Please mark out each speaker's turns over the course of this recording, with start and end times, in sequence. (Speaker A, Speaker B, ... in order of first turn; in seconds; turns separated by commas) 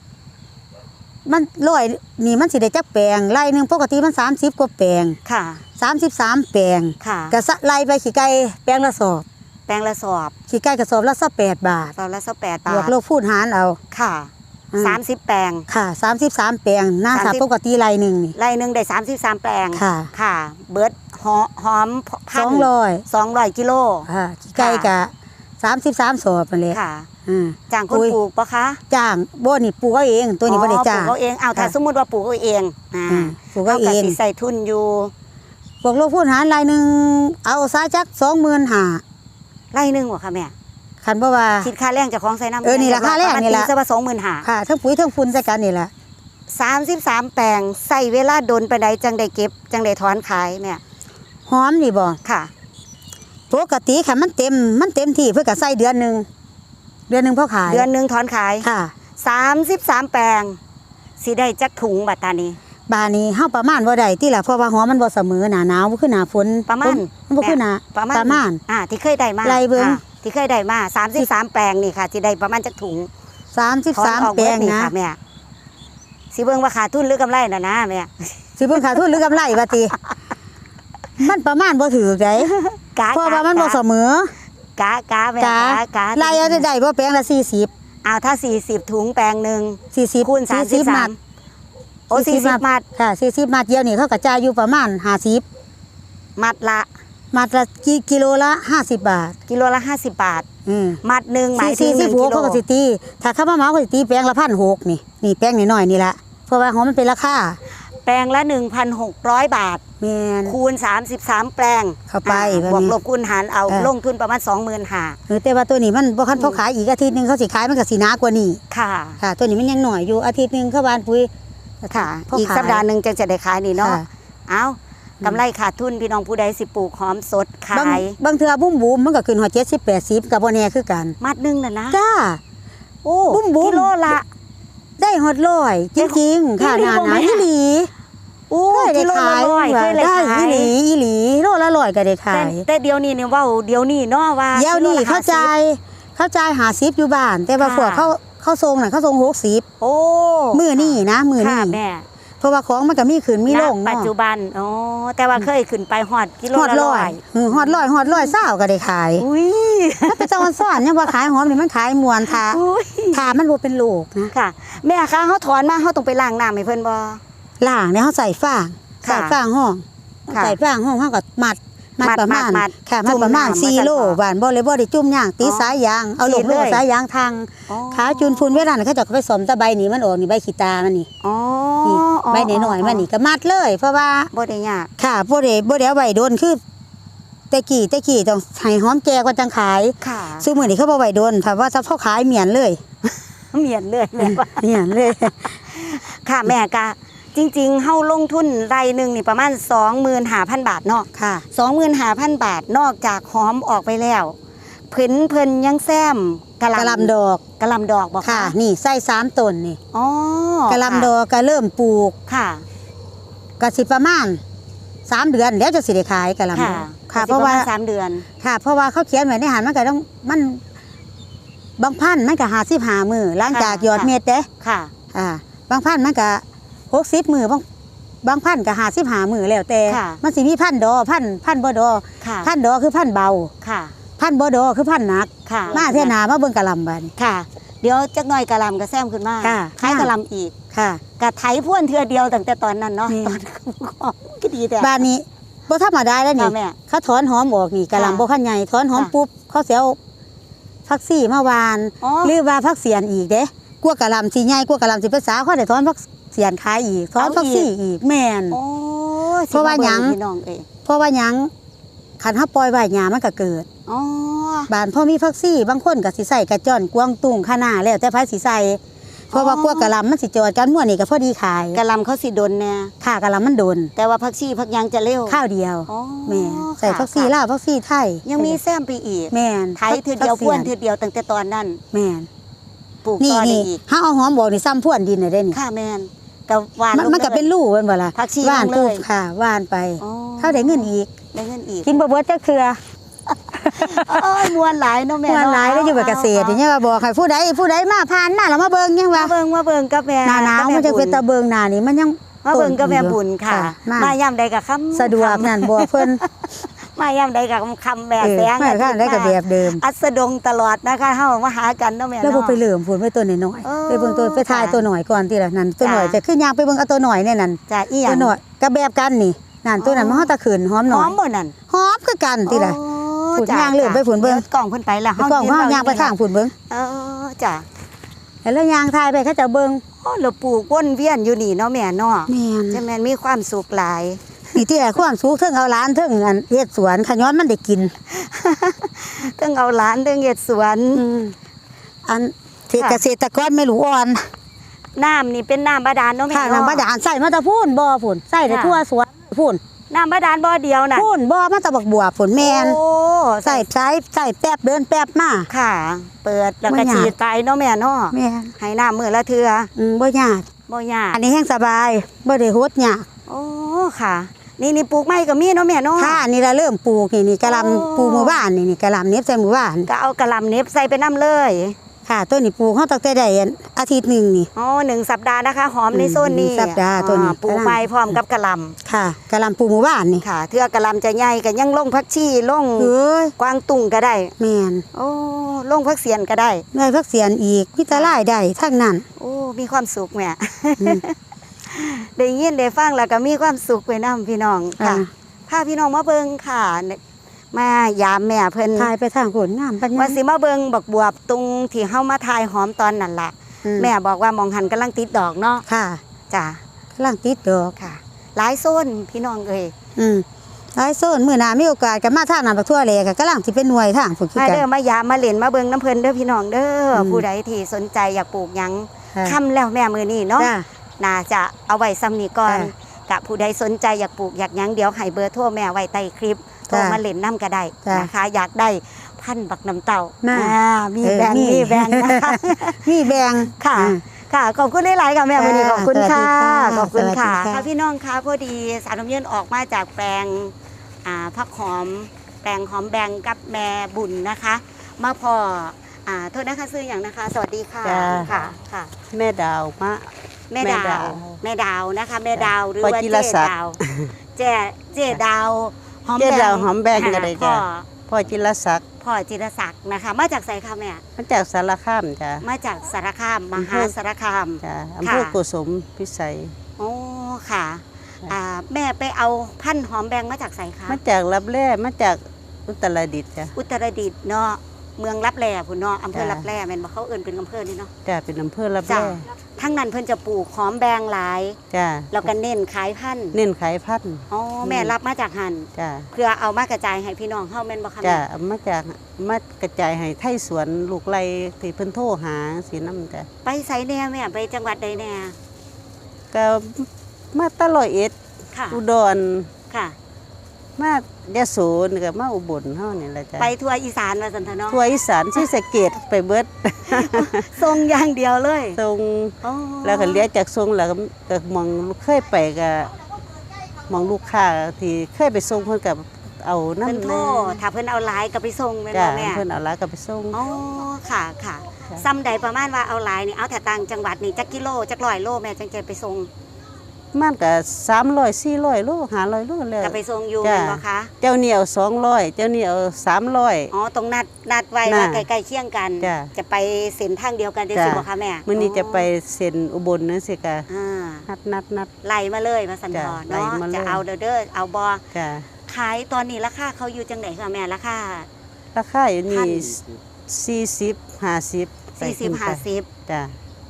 Speaker A: 1.2-5.2, Speaker B: 5.2-5.6, Speaker A: 5.8-9.2, Speaker B: 7.0-7.3, Speaker B: 9.7-10.3, Speaker A: 10.5-11.9, Speaker B: 11.9-12.9, Speaker A: 12.7-13.8, Speaker B: 13.9-15.6, Speaker A: 14.7-15.0, Speaker A: 15.7-18.3, Speaker B: 17.1-17.4, Speaker B: 18.3-24.9, Speaker A: 19.7-20.1, Speaker A: 22.3-23.0, Speaker A: 24.1-28.2, Speaker B: 26.7-27.1, Speaker B: 27.7-28.8, Speaker A: 28.9-31.7, Speaker B: 30.5-35.1, Speaker A: 33.1-34.2, Speaker A: 35.8-39.0, Speaker B: 39.7-40.5, Speaker A: 41.0-41.7, Speaker B: 41.6-44.5, Speaker A: 42.6-43.7, Speaker A: 44.4-45.9, Speaker B: 46.5-50.8, Speaker A: 51.5-52.2, Speaker B: 52.2-52.5, Speaker A: 53.5-56.2, Speaker A: 57.1-57.9, Speaker B: 57.6-58.7, Speaker A: 58.6-58.9, Speaker B: 59.2-60.6, Speaker B: 61.2-62.6, Speaker A: 62.9-68.6, Speaker B: 66.7-73.1, Speaker A: 69.4-70.0, Speaker A: 73.5-74.9, Speaker B: 73.9-75.2, Speaker B: 76.3-79.1, Speaker A: 78.6-79.9, Speaker A: 81.2-82.5, Speaker B: 82.4-83.8, Speaker A: 83.1-84.3, Speaker B: 84.8-86.6, Speaker A: 85.4-87.7, Speaker B: 88.0-91.2, Speaker A: 89.9-91.1, Speaker B: 92.1-92.8, Speaker A: 92.1-95.4, Speaker B: 96.4-96.9, Speaker A: 97.3-99.3, Speaker B: 99.5-100.4, Speaker A: 100.7-101.0, Speaker B: 101.0-102.6, Speaker A: 101.5-107.6, Speaker B: 107.9-109.8, Speaker A: 110.0-110.5, Speaker B: 110.4-115.2, Speaker A: 112.1-112.9, Speaker A: 115.3-118.6, Speaker B: 116.3-116.6, Speaker B: 118.7-119.2, Speaker A: 119.2-121.3, Speaker A: 121.8-122.8, Speaker B: 121.9-128.2, Speaker A: 123.8-124.0, Speaker A: 127.7-131.2, Speaker B: 131.2-132.0, Speaker A: 131.9-132.4, Speaker B: 133.0-134.2, Speaker A: 133.3-133.9, Speaker A: 135.0-137.9, Speaker B: 135.9-137.5, Speaker B: 138.5-140.7, Speaker A: 138.7-142.6, Speaker B: 142.3-145.5, Speaker A: 144.5-149.6, Speaker B: 147.6-148.1, Speaker B: 149.8-152.1, Speaker A: 150.5-151.8, Speaker A: 152.4-154.1, Speaker B: 153.5-158.3, Speaker A: 156.5-159.2, Speaker B: 159.2-160.7, Speaker A: 160.1-162.6, Speaker B: 162.2-163.3, Speaker A: 163.1-164.3, Speaker B: 164.3-167.2, Speaker A: 167.6-181.1, Speaker B: 169.0-169.4, Speaker B: 170.3-170.6, Speaker B: 172.0-174.2, Speaker B: 175.4-176.8, Speaker B: 177.7-178.6, Speaker B: 181.2-183.1, Speaker A: 181.8-184.3, Speaker B: 184.3-184.9, Speaker A: 185.0-186.6, Speaker A: 187.5-192.8, Speaker B: 190.0-190.7, Speaker B: 193.5-194.7, Speaker A: 194.2-195.6, Speaker B: 195.7-204.3, Speaker A: 201.1-201.4, Speaker B: 204.9-208.5, Speaker A: 206.7-207.4, Speaker A: 208.2-209.8, Speaker B: 209.9-211.1, Speaker A: 210.7-212.1, Speaker B: 212.3-212.6, Speaker A: 213.6-214.4, Speaker A: 215.1-217.7, Speaker B: 216.5-218.2, Speaker A: 218.4-220.6, Speaker A: 221.8-224.5, Speaker B: 223.5-224.9, Speaker A: 225.1-227.6, Speaker A: 228.2-233.5, Speaker B: 229.9-230.2, Speaker B: 232.2-232.5, Speaker B: 233.6-233.9, Speaker A: 234.2-237.1, Speaker B: 235.4-236.1, Speaker B: 237.2-240.5, Speaker A: 239.4-240.1, Speaker A: 240.7-241.0, Speaker B: 241.2-245.0, Speaker A: 243.1-243.4, Speaker A: 244.8-250.0, Speaker B: 246.4-246.8, Speaker B: 247.9-248.2, Speaker A: 250.9-258.6, Speaker B: 252.0-252.3, Speaker B: 257.2-257.7, Speaker B: 258.5-260.6, Speaker A: 259.5-260.1, Speaker A: 260.9-261.5, Speaker A: 262.2-263.6, Speaker B: 263.9-264.7, Speaker A: 264.7-268.8, Speaker B: 269.3-269.9, Speaker A: 269.3-271.8, Speaker B: 271.7-272.9, Speaker A: 273.0-273.9, Speaker B: 273.9-277.3, Speaker A: 275.3-278.6, Speaker B: 278.2-281.8, Speaker A: 279.3-280.7, Speaker A: 281.9-282.3, Speaker B: 283.0-283.8, Speaker A: 283.2-285.6, Speaker B: 285.5-287.5, Speaker A: 286.9-291.1, Speaker B: 288.1-289.0, Speaker B: 290.0-291.9, Speaker A: 291.9-292.8, Speaker A: 293.5-294.5, Speaker B: 293.7-296.6, Speaker A: 295.3-299.3, Speaker B: 299.1-301.2, Speaker A: 300.2-304.1, Speaker B: 302.4-312.6, Speaker A: 304.9-306.2, Speaker A: 308.2-309.8, Speaker A: 312.2-321.1, Speaker B: 313.6-314.8, Speaker B: 315.8-316.2, Speaker B: 317.7-318.3, Speaker B: 319.8-320.3, Speaker B: 320.9-321.5, Speaker A: 321.7-322.8, Speaker B: 322.4-326.1, Speaker A: 323.4-324.4, Speaker A: 325.2-326.5, Speaker B: 326.7-327.6, Speaker A: 328.4-329.8, Speaker B: 330.0-334.2, Speaker A: 332.3-332.8, Speaker A: 334.5-337.9, Speaker B: 338.1-341.0, Speaker A: 340.9-341.3, Speaker A: 342.1-344.3, Speaker B: 342.7-343.0, Speaker B: 344.9-346.9, Speaker A: 346.3-349.6, Speaker B: 348.5-348.8, Speaker B: 349.9-351.1, Speaker A: 350.9-352.8, Speaker B: 352.4-353.6, Speaker A: 353.4-355.5, Speaker B: 355.5-359.7, Speaker A: 356.7-357.1, Speaker A: 358.1-358.5, Speaker A: 359.8-360.4, Speaker B: 360.7-361.2, Speaker A: 361.1-363.1, Speaker B: 363.3-366.2, Speaker A: 366.0-369.9, Speaker B: 367.4-368.4, Speaker B: 369.9-371.8, Speaker A: 372.1-374.5, Speaker B: 374.5-378.8, Speaker A: 375.9-377.8, Speaker A: 378.8-380.2, Speaker B: 380.2-384.3, Speaker A: 382.8-383.3, Speaker A: 384.4-384.8, Speaker B: 384.9-386.6, Speaker A: 386.7-389.0, Speaker B: 387.9-388.2, Speaker B: 389.2-391.1, Speaker B: 391.6-397.0, Speaker A: 394.8-395.1, Speaker B: 397.5-398.9, Speaker A: 398.8-400.2, Speaker B: 399.9-405.6, Speaker A: 403.6-403.9, Speaker A: 405.7-406.0, Speaker B: 406.3-406.6, Speaker A: 406.9-407.7, Speaker B: 407.8-409.7, Speaker A: 409.9-414.6, Speaker B: 414.3-432.9, Speaker A: 416.9-417.2, Speaker A: 420.4-420.6, Speaker A: 426.7-427.0, Speaker A: 427.8-428.1, Speaker A: 430.2-434.0, Speaker B: 433.5-448.9, Speaker A: 435.4-437.7, Speaker C: 447.8-448.5, Speaker C: 449.1-451.4, Speaker B: 450.5-453.8, Speaker C: 452.4-454.1, Speaker B: 454.4-457.9, Speaker C: 456.2-458.8, Speaker B: 459.0-461.0, Speaker C: 461.2-462.4, Speaker B: 462.4-465.4, Speaker C: 463.6-463.9, Speaker C: 464.6-466.5, Speaker B: 466.8-471.0, Speaker C: 470.9-473.5, Speaker B: 473.5-477.9, Speaker C: 476.1-476.5, Speaker C: 478.1-479.2, Speaker B: 478.9-481.6, Speaker C: 481.7-482.3, Speaker B: 482.1-483.4, Speaker C: 483.3-484.9, Speaker B: 484.3-488.2, Speaker C: 485.7-486.1, Speaker C: 488.0-493.3, Speaker B: 493.4-495.3, Speaker C: 496.3-498.1, Speaker B: 498.5-498.8, Speaker C: 498.7-499.5, Speaker B: 499.7-499.9, Speaker C: 500.8-503.5, Speaker B: 503.4-504.8, Speaker C: 504.7-507.5, Speaker B: 506.9-508.8, Speaker C: 508.8-513.0, Speaker B: 509.4-510.2, Speaker C: 513.9-517.6, Speaker B: 516.8-519.4, Speaker C: 518.9-520.4, Speaker B: 520.3-526.3, Speaker C: 527.1-533.7, Speaker B: 529.8-531.1, Speaker B: 533.7-539.1, Speaker C: 534.8-535.2, Speaker C: 536.0-536.3, Speaker C: 537.7-540.7, Speaker B: 540.7-541.3, Speaker C: 541.3-541.9, Speaker B: 542.0-545.0, Speaker C: 542.9-544.0, Speaker C: 545.1-545.5, Speaker B: 545.6-548.3, Speaker C: 548.7-553.3, Speaker B: 549.3-549.8, Speaker B: 552.0-552.9